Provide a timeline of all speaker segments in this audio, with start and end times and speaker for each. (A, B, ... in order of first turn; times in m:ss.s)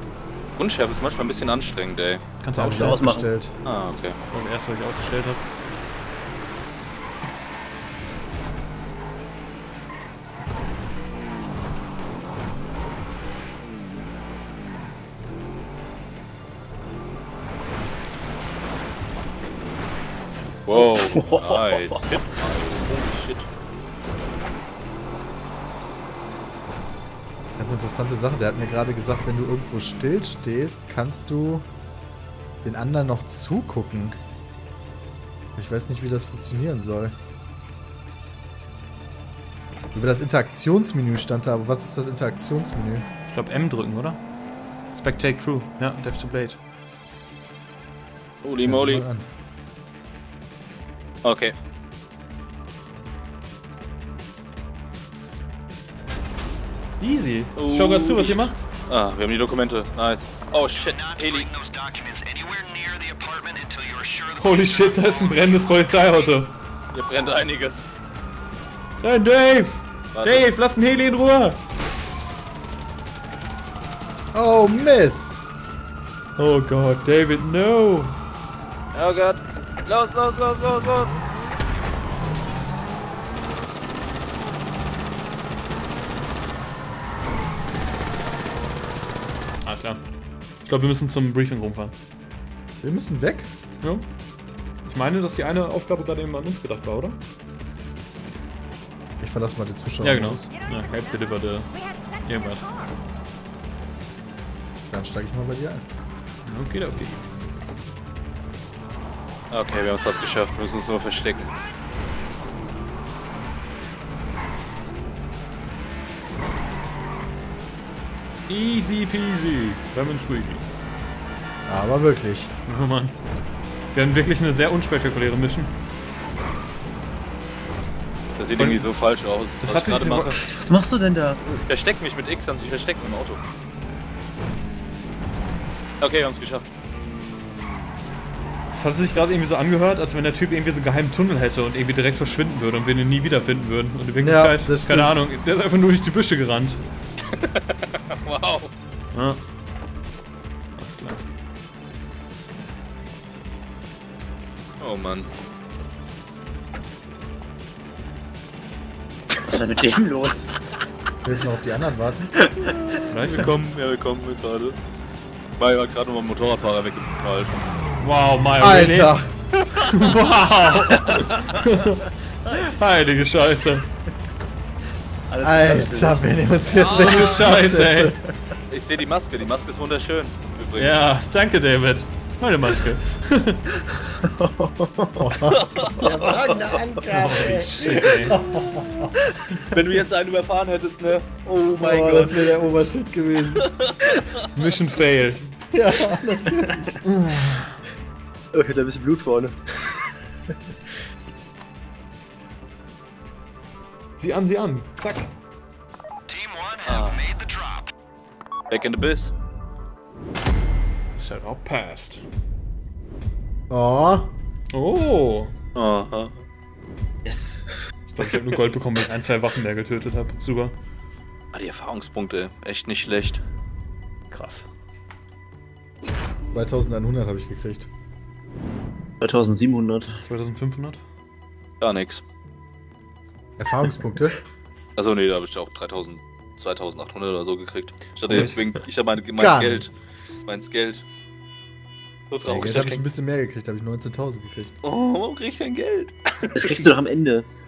0:00.6-0:02.2 A
0:02.4-0:03.2 B
0:02.5-0:03.5 C
0:02.8-0:03.3 D
0:03.6-0:04.2 A
0:04.3-0:05.4 B
0:20.6-0:23.5 A
0:20.7-0:22.0 D
0:27.6-0:31.6 C
0:32.6-0:34.2 C
0:35.6-0:37.1 C
0:39.9-0:43.0 C
0:43.3-0:44.2 B
0:44.9-0:46.6 B
0:48.4-0:49.0 A
0:48.6-0:49.2 C
0:51.2-0:51.5 A
0:57.0-0:58.6 B
0:57.6-1:01.5 A
1:00.7-1:05.1 E
1:04.4-1:06.5 B
1:06.9-1:07.9 A
1:09.0-1:11.6 B
1:10.1-1:10.5 A
1:14.3-1:15.4 C
1:16.4-1:18.2 B
1:18.9-1:21.2 A
1:29.6-1:30.0 B
1:30.6-1:31.9 B
1:32.8-1:33.5 C
1:34.8-1:37.2 B
1:39.2-1:40.5 C
1:40.0-1:42.7 B
1:44.9-1:45.8 C
1:46.4-1:47.2 B
1:49.5-1:51.5 A
1:58.5-2:00.6 B
2:01.6-2:02.5 C
2:02.7-2:03.1 B
2:03.9-2:05.7 B
2:08.4-2:10.4 A
2:08.6-2:08.9 B
2:09.6-2:10.4 B
2:10.4-2:11.4 D
2:11.4-2:13.4 A
2:16.0-2:16.6 A
2:18.7-2:26.8 B
2:24.2-2:25.2 C
2:27.3-2:28.7 A
2:29.1-2:29.4 B
2:30.8-2:31.2 B
2:34.8-2:35.3 A
2:39.5-2:40.5 D
2:41.2-2:42.3 C
2:42.4-2:42.7 D
2:42.7-2:44.8 A
2:43.1-2:43.5 B
2:45.6-2:47.5 A
2:48.0-2:53.9 B
2:48.6-2:49.3 C
2:55.3-2:56.3 D
2:55.4-2:58.2 C
2:56.7-2:57.5 A
2:56.8-2:58.2 B
2:58.7-3:01.0 A
3:00.8-3:03.6 B
3:04.1-3:07.0 D
3:05.2-3:09.1 C
3:05.5-3:06.0 A
3:07.1-3:08.4 B
3:08.6-3:08.9 A
3:09.7-3:12.5 A
3:11.7-3:13.7 C
3:13.6-3:14.3 A
3:14.5-3:15.6 B
3:15.7-3:17.0 C
3:17.0-3:17.8 B
3:18.5-3:20.0 D
3:24.2-3:25.3 B
3:26.3-3:27.9 E
3:26.8-3:27.2 A
3:28.7-3:29.3 A
3:31.2-3:32.2 B
3:33.7-3:34.3 C
3:34.7-3:35.5 B
3:35.7-3:36.4 A
3:37.2-3:37.7 D
3:38.1-3:40.7 B
3:41.5-3:43.4 A
3:44.3-3:44.7 B
3:46.5-3:47.9 C
3:49.2-3:50.2 D
3:50.2-3:51.0 B
3:51.8-3:52.2 A
3:53.6-3:54.4 C
3:55.0-3:59.9 A
3:59.4-3:59.9 C
4:00.4-4:01.0 A
4:02.3-4:03.0 A
4:02.4-4:04.7 C
4:04.8-4:06.8 A
4:06.5-4:07.5 D